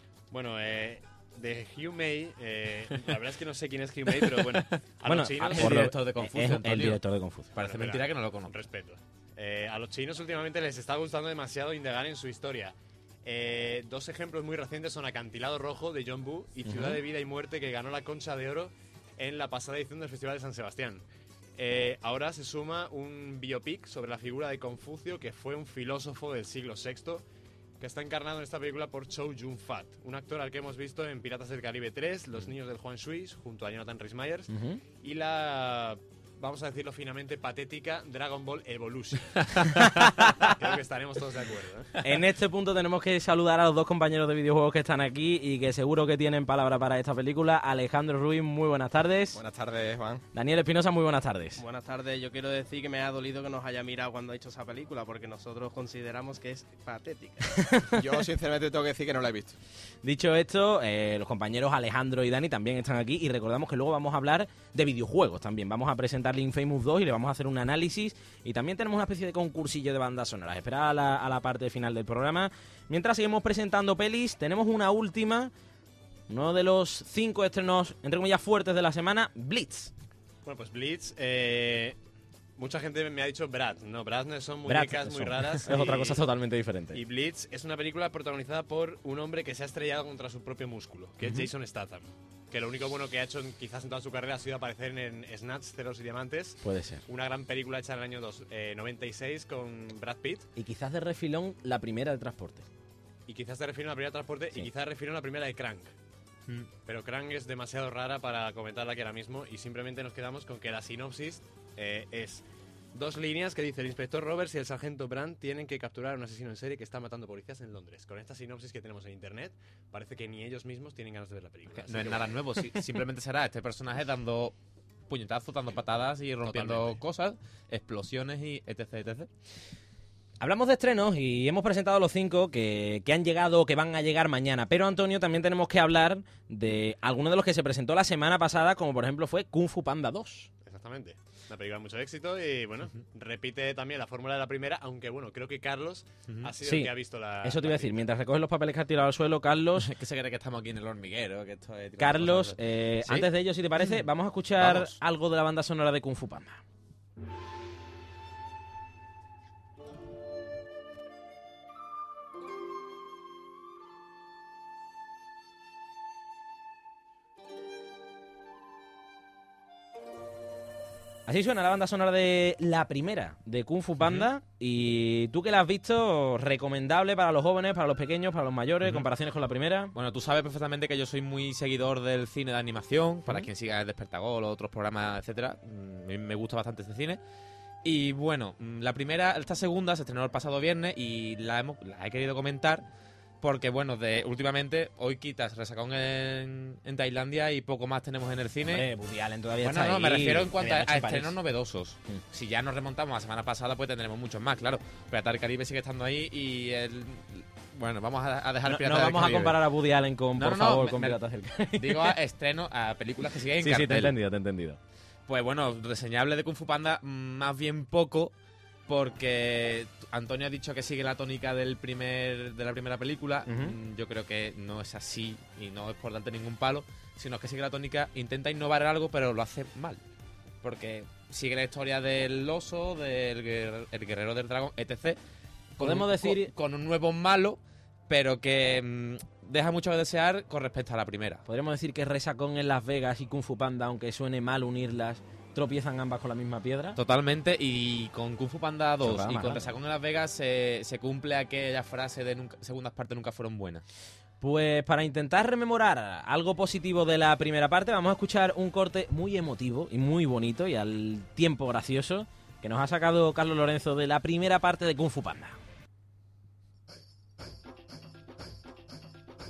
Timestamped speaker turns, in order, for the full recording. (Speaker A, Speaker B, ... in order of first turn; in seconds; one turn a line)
Speaker A: 0.3-6.3
Speaker B: 5.0-7.5
Speaker C: 5.5-7.0
Speaker C: 7.5-8.5
Speaker A: 7.6-21.0
Speaker B: 16.6-17.0
Speaker A: 21.6-27.2
Speaker A: 27.8-39.7
Speaker B: 34.5-34.8
Speaker A: 40.5-41.9
Speaker B: 42.0-49.4
Speaker D: 49.3-50.2
Speaker B: 50.3-51.6
Speaker E: 51.6-57.6
Speaker B: 57.6-58.0
Speaker D: 58.0-59.5
Speaker B: 60.0-75.5
Speaker B: 76.3-79.9
Speaker A: 80.4-82.0
Speaker A: 82.6-86.2
Speaker B: 84.7-87.0
Speaker A: 86.9-100.5
Speaker B: 96.6-97.0
Speaker B: 100.5-102.7
Speaker A: 103.3-105.9
Speaker A: 106.8-122.4
Speaker C: 121.7-124.5
Speaker C: 125.1-129.3
Speaker A: 126.4-127.0
Speaker B: 130.4-140.5
Speaker A: 140.6-147.9
Speaker B: 146.6-146.9
Speaker B: 147.4-149.9
Speaker C: 149.8-153.3
Speaker B: 152.0-156.6
Speaker C: 154.6-154.9
Speaker B: 171.2-179.9
Speaker C: 179.9-187.2
Speaker C: 187.8-192.8
Speaker C: 193.4-198.8
Speaker B: 198.6-201.3
Speaker C: 199.6-209.6
Speaker B: 208.6-212.2
Speaker C: 210.4-211.2
Speaker C: 211.8-214.1
Speaker B: 213.6-214.8
Speaker C: 215.3-218.3
Speaker C: 218.9-230.0
Speaker B: 223.4-223.7
Speaker C: 230.6-235.2
Speaker C: 235.8-241.4
Speaker B: 235.8-236.5
Speaker B: 241.5-247.0
Speaker C: 246.9-253.8
Speaker B: 249.0-249.7
Speaker B: 254.4-265.6